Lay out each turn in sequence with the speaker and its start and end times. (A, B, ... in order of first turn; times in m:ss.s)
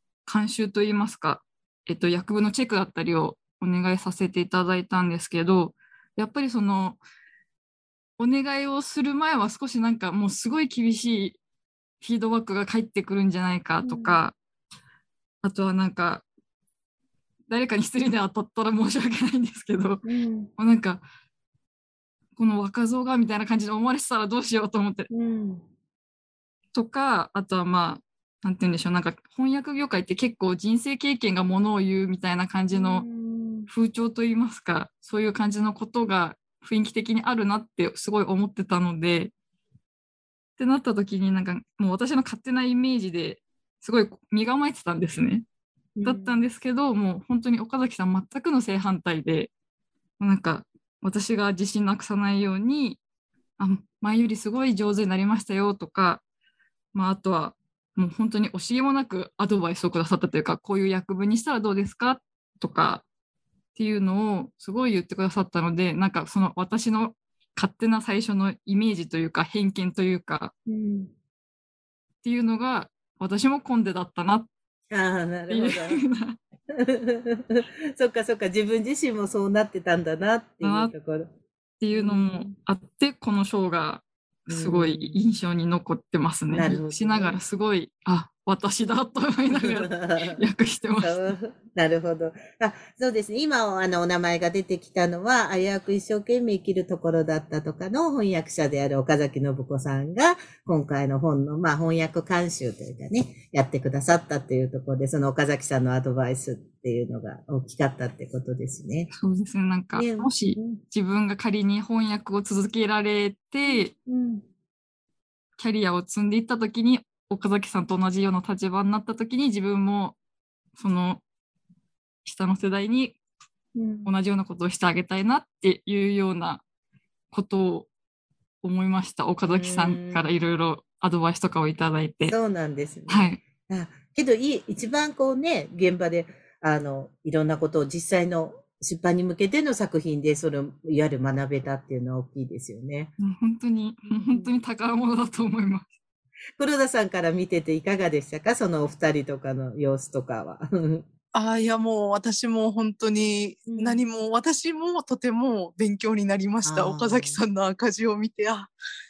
0:00.2-0:07.0 A
0:08.2-0:11.4 A
0:12.0-0:14.4 A
0:13.8-0:14.2 B
0:15.4-0:16.2 A
0:17.5-0:20.0 A
0:20.0-0:20.5 B
0:20.6-0:21.0 A
0:22.4-0:25.1 A
0:25.1-0:25.6 B
0:26.7-0:33.1 A
0:32.7-0:33.7 B
0:33.7-0:39.3 A
0:40.6-0:45.4 A
0:46.0-0:46.4 B
0:46.0-0:49.5 A
0:50.2-0:53.0 A
0:53.6-0:56.2 A
0:56.9-1:03.0 A
1:03.8-1:10.5 A
1:10.7-1:11.1 B
1:12.2-1:14.5 A
1:14.9-1:16.0 B
1:15.5-1:16.4 A
1:16.7-1:21.3 B
1:20.6-1:20.9 A
1:21.8-1:31.3 A
1:21.9-1:22.6 B
1:24.5-1:25.2 B
1:26.5-1:27.4 B
1:29.5-1:30.4 B
1:31.0-1:49.1 B
1:49.1-1:53.9 A
1:50.0-1:50.8 B
1:53.6-1:54.4 B
1:55.6-2:00.2 A
2:00.8-2:01.2 A
2:02.2-2:03.2 A
2:03.8-2:04.1 B
2:04.0-2:06.6 A
2:07.3-2:07.9 A
2:08.6-2:12.4 A
2:09.5-2:10.2 B
2:12.3-2:23.1 B
2:13.1-2:13.4 A
2:23.2-2:25.9 A
2:24.1-2:24.5 B
2:26.6-2:31.1 B
2:31.4-2:38.7 C
2:33.7-2:34.0 B
2:36.6-2:37.4 B